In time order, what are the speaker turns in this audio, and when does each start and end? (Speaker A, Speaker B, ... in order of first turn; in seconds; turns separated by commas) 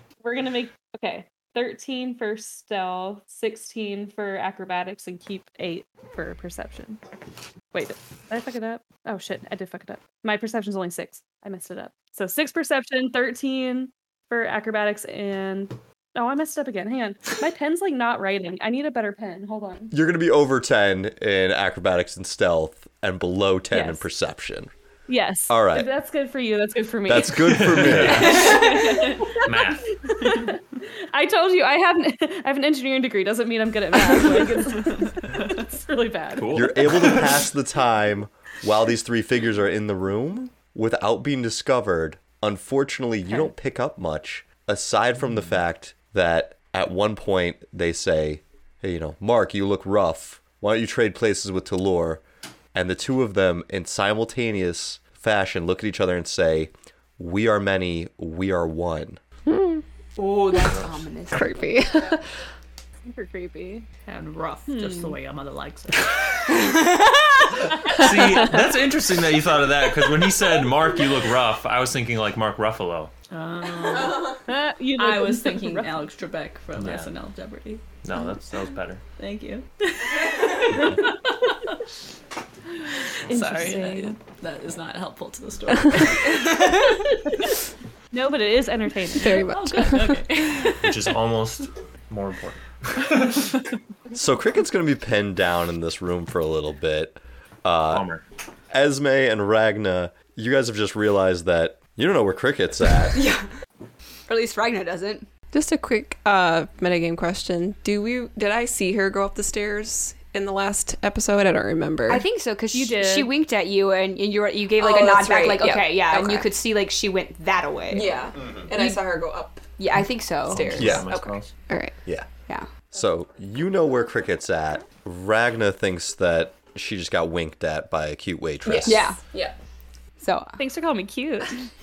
Speaker A: 0.2-7.0, Speaker A: 7.7-19.9, Speaker B: 19.9-24.7, Speaker A: 23.7-24.1, Speaker A: 25.1-36.7, Speaker B: 25.5-25.9, Speaker B: 27.1-28.6, Speaker C: 27.5-28.9, Speaker D: 28.6-29.2, Speaker C: 29.4-29.9, Speaker C: 36.4-37.4, Speaker B: 36.5-52.2, Speaker B: 52.7-59.2, Speaker E: 59.5-59.8, Speaker F: 60.2-62.1, Speaker E: 61.3-62.2, Speaker A: 63.1-63.9, Speaker D: 64.1-66.2, Speaker A: 64.7-65.2, Speaker F: 66.5-67.5, Speaker C: 67.8-73.1, Speaker E: 67.9-68.2, Speaker D: 73.3-74.4, Speaker A: 74.4-76.0, Speaker D: 75.0-77.9, Speaker C: 76.8-77.1, Speaker C: 78.0-79.0, Speaker D: 79.2-81.8, Speaker A: 83.3-84.2, Speaker D: 83.3-87.5, Speaker A: 88.1-89.5, Speaker E: 89.2-90.3, Speaker D: 89.2-91.1, Speaker C: 90.7-93.5, Speaker B: 94.1-98.1, Speaker C: 97.9-98.2, Speaker B: 98.7-103.3, Speaker F: 103.1-103.5, Speaker F: 104.3-105.3, Speaker E: 105.5-112.2, Speaker F: 112.1-118.2, Speaker A: 112.7-113.3, Speaker E: 114.8-116.5, Speaker E: 117.9-119.7, Speaker B: 118.4-118.7, Speaker F: 118.7-119.0, Speaker F: 119.8-121.3, Speaker E: 120.5-122.0, Speaker C: 120.5-121.5, Speaker B: 120.7-121.2, Speaker B: 122.9-129.1, Speaker E: 128.7-129.5, Speaker F: 128.8-129.2, Speaker F: 130.2-130.6, Speaker A: 130.6-131.6